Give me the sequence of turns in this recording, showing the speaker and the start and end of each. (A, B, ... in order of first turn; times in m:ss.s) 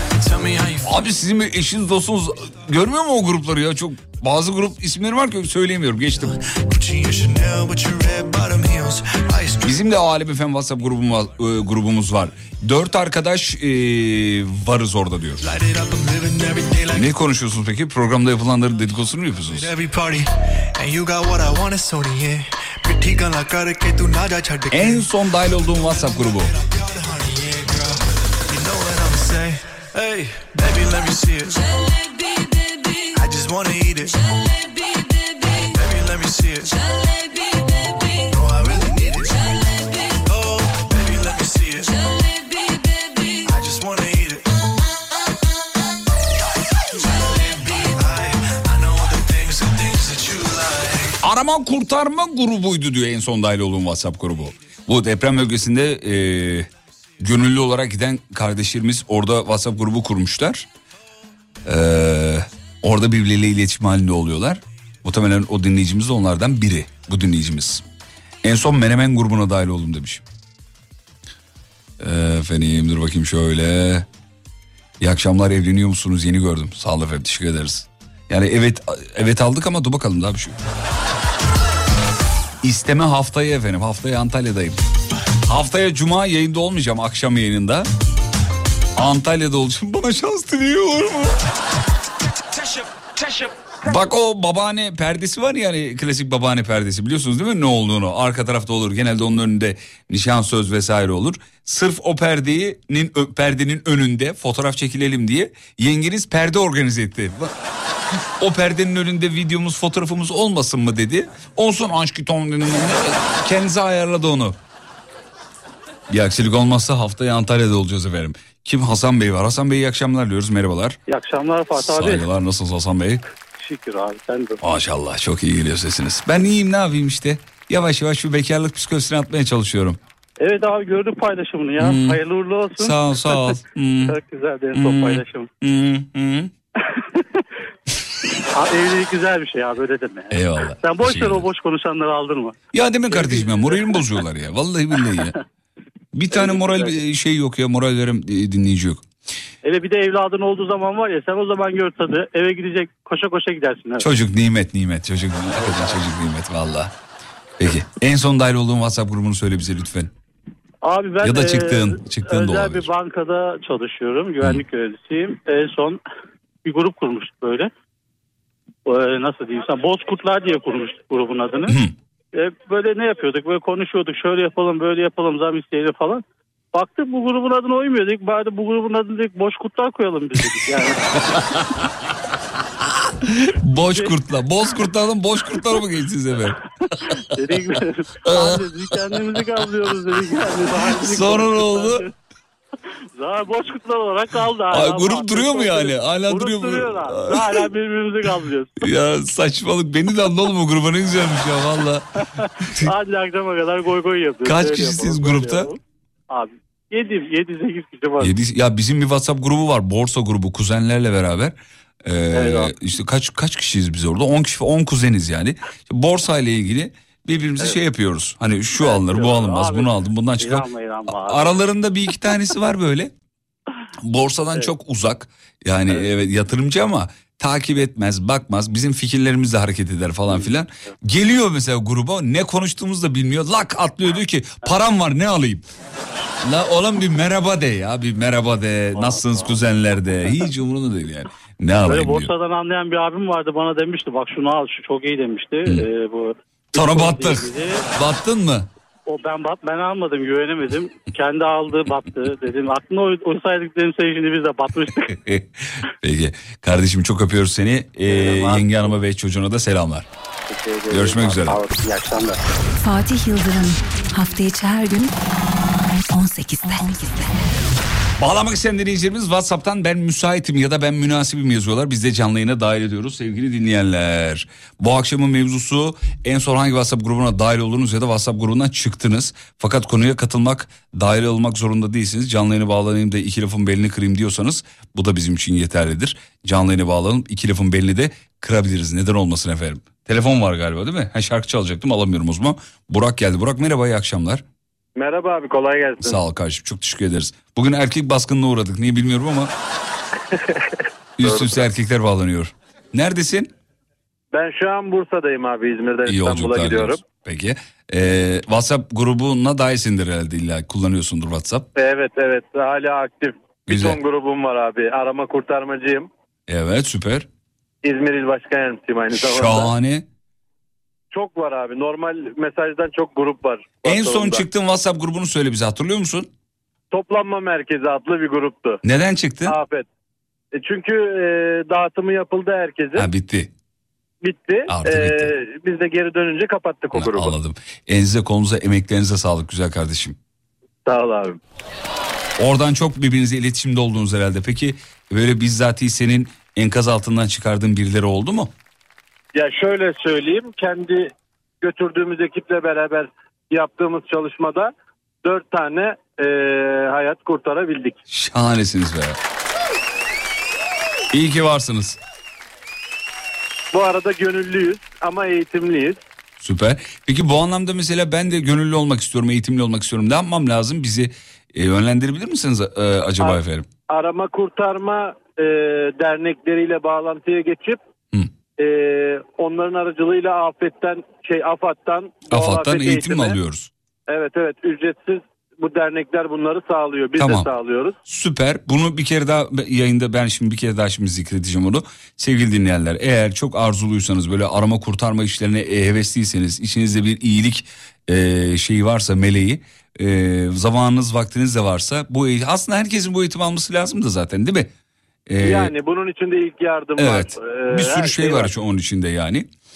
0:00.2-0:01.0 A
0:00.8-0:06.4 B
0:06.3-0:09.8 A
0:09.6-0:15.4 B
0:15.4-0:17.1 A
0:16.9-0:19.7 B
0:19.5-0:25.1 A
0:24.7-0:26.5 B
0:25.6-0:31.6 A
0:33.1-0:34.1 A
0:35.7-0:36.8 A
0:38.3-0:39.4 A
0:40.2-0:42.0 A
0:43.4-0:44.5 A
0:47.1-0:51.2 A
0:51.2-0:56.7 B
0:57.2-1:00.7 B
1:01.6-1:07.8 B
1:08.4-1:10.2 B
1:12.0-1:14.1 B
1:15.0-1:20.6 B
1:22.6-1:24.8 B
1:25.5-1:27.9 B
1:29.0-1:31.4 B
1:33.8-1:47.5 B
1:48.4-1:54.6 B
1:56.1-2:01.0 B
2:01.1-2:02.2 C
2:01.8-2:03.2 B
2:03.5-2:04.6 C
2:04.6-2:10.0 B
2:10.4-2:15.5 C
2:11.8-2:12.2 B
2:12.8-2:14.2 B
2:14.7-2:16.5 B
2:18.5-2:22.6 C
2:20.3-2:21.5 B
2:22.7-2:25.3 B
2:23.1-2:24.0 C
2:26.1-2:29.0 B
2:26.3-2:26.9 C
2:29.6-2:34.1 C
2:34.0-2:36.9 B
2:35.6-2:35.9 C
2:37.6-2:40.1 B
2:40.8-2:46.0 C
2:41.2-2:42.9 B
2:46.6-2:47.7 C
2:48.8-2:51.7 C
2:51.7-2:51.9 B
2:52.3-3:01.4 C
3:03.2-3:06.6 B
3:07.1-3:12.1 C
3:08.2-3:09.4 B
3:10.9-3:12.1 B
3:13.2-3:18.7 C
3:14.7-3:17.7 B
3:18.8-3:22.0 B
3:22.8-3:25.8 C
3:24.4-3:25.7 B
3:26.3-3:28.3 C
3:28.2-3:43.1 B
3:32.3-3:32.7 C
3:38.7-3:41.6 C
3:44.0-3:55.6 B
3:56.4-4:02.3 B
3:59.0-3:59.5 C
4:01.8-4:07.8 C
4:06.7-4:08.7 B
4:09.1-4:15.1 C
4:15.1-4:20.1 B
4:18.1-4:18.9 C
4:20.5-4:22.4 C
4:20.9-4:21.7 B
4:22.8-4:25.1 D
4:26.1-4:27.5 D
4:28.2-4:54.4 B
4:55.0-4:56.2 E
4:56.0-4:59.5 B
5:00.3-5:00.7 E
5:01.2-5:03.5 B
5:01.2-5:01.7 E
5:04.3-5:07.0 E
5:06.1-5:11.7 B
5:11.8-5:16.1 E
5:13.7-5:14.0 B
5:16.5-5:17.3 B
5:17.8-5:19.7 E
5:19.1-5:20.0 B
5:21.1-5:24.4 E
5:23.8-5:26.3 B
5:26.9-5:28.8 E
5:28.8-5:29.6 B
5:29.4-5:29.8 E
5:30.5-5:33.1 E
5:33.0-5:33.5 B
5:34.2-5:37.4 E
5:34.7-5:35.3 B
5:36.9-5:40.2 B
5:40.8-5:41.4 E
5:42.4-5:48.5 B
5:49.3-5:54.7 E
5:55.2-5:58.0 E
5:58.1-5:59.2 B
6:01.1-6:02.0 B
6:03.7-6:06.0 E
6:06.4-6:13.7 B
6:13.2-6:17.8 E
6:18.6-6:23.4 E
6:22.3-6:23.7 B
6:24.1-6:28.0 E
6:27.2-6:27.5 B
6:28.1-6:44.7 B
6:45.3-6:45.7 B
6:45.4-6:48.5 E
6:47.0-6:49.5 B